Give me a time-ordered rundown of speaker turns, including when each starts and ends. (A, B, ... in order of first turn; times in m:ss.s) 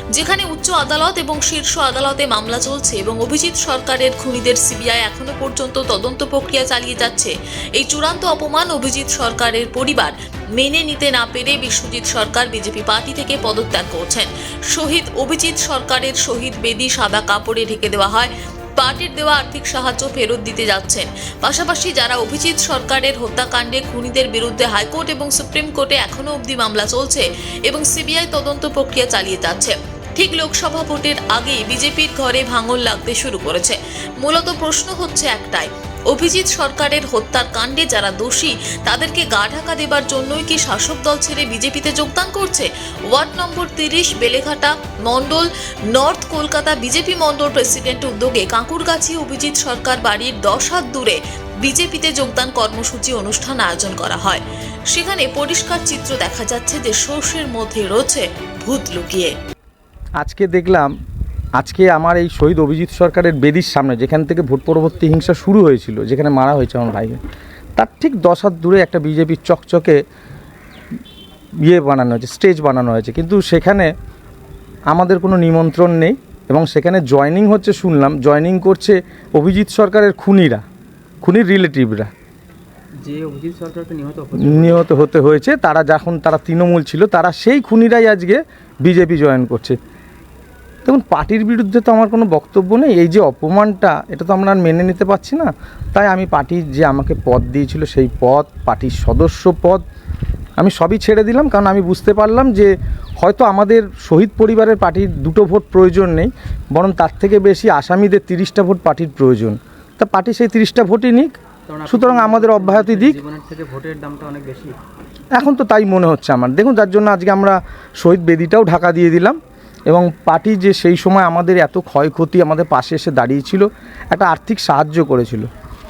0:00.1-0:59.3 A
1:00.2-1:00.9 B
1:01.6-1:07.2 B
1:07.8-1:10.0 B
1:11.6-1:13.9 B
1:14.9-1:20.6 B
1:21.2-1:22.1 B
1:23.0-1:24.8 C
1:24.4-1:29.8 B
1:30.8-1:39.8 B
1:40.6-1:51.3 B
1:51.7-1:54.7 C
1:51.9-1:53.2 B
1:55.4-2:05.5 B